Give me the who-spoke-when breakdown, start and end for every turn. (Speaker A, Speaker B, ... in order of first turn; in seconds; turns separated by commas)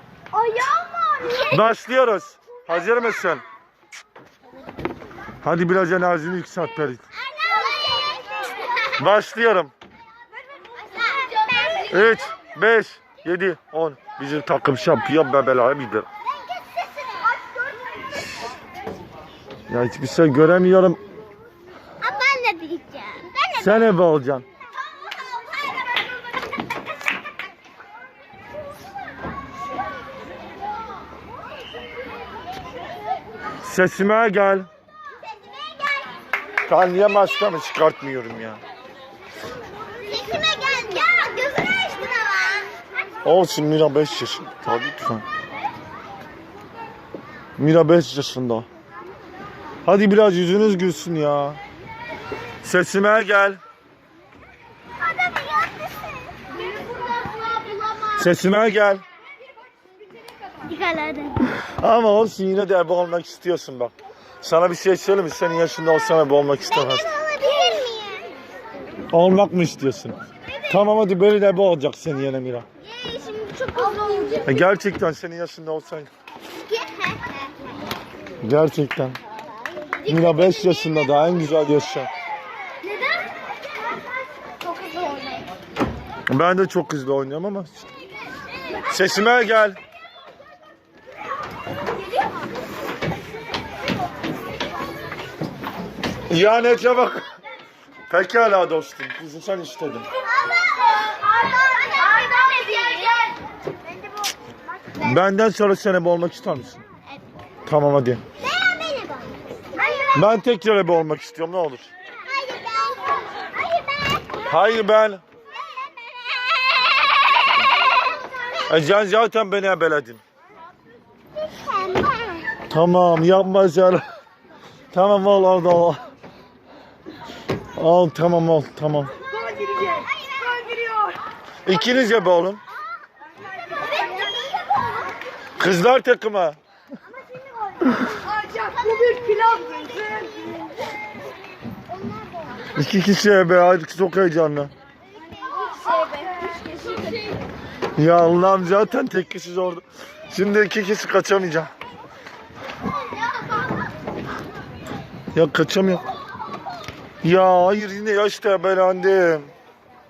Speaker A: 1.2-1.4, Speaker B: 1.4-3.4, Speaker B: 5.4-7.0, Speaker A: 7.4-8.4, Speaker B: 9.0-9.7, Speaker A: 11.0-11.9, Speaker B: 11.8-16.1, Speaker A: 16.5-17.3, Speaker B: 19.7-21.0, Speaker A: 22.0-23.8, Speaker B: 23.6-24.4, Speaker B: 33.6-34.7, Speaker B: 36.6-38.6, Speaker A: 40.0-42.7, Speaker B: 43.2-45.2, Speaker B: 47.6-48.7, Speaker B: 49.8-51.6, Speaker B: 52.6-53.6, Speaker A: 55.1-56.1, Speaker B: 58.1-59.0, Speaker A: 60.6-61.5, Speaker B: 61.6-67.1, Speaker A: 66.7-68.3, Speaker B: 69.1-72.7, Speaker A: 72.8-74.6, Speaker B: 74.4-76.1, Speaker A: 76.5-77.4, Speaker B: 78.4-79.2, Speaker A: 80.0-80.8, Speaker B: 80.0-82.1, Speaker B: 86.3-87.8, Speaker B: 88.9-89.8, Speaker B: 96.3-97.3, Speaker B: 98.1-100.1, Speaker A: 100.5-103.3, Speaker B: 105.0-106.8, Speaker B: 107.7-108.2, Speaker A: 108.4-110.1, Speaker B: 110.1-111.9, Speaker A: 112.5-113.0, Speaker A: 113.5-114.2, Speaker B: 114.5-115.2, Speaker B: 118.7-120.2, Speaker A: 121.5-122.5, Speaker B: 122.7-124.0, Speaker B: 124.9-126.0, Speaker B: 127.8-129.1, Speaker C: 129.6-130.0, Speaker B: 131.6-132.6, Speaker B: 135.6-136.6, Speaker C: 138.7-140.5, Speaker B: 142.7-144.7, Speaker B: 147.9-151.7, Speaker B: 155.3-156.0, Speaker B: 157.2-159.5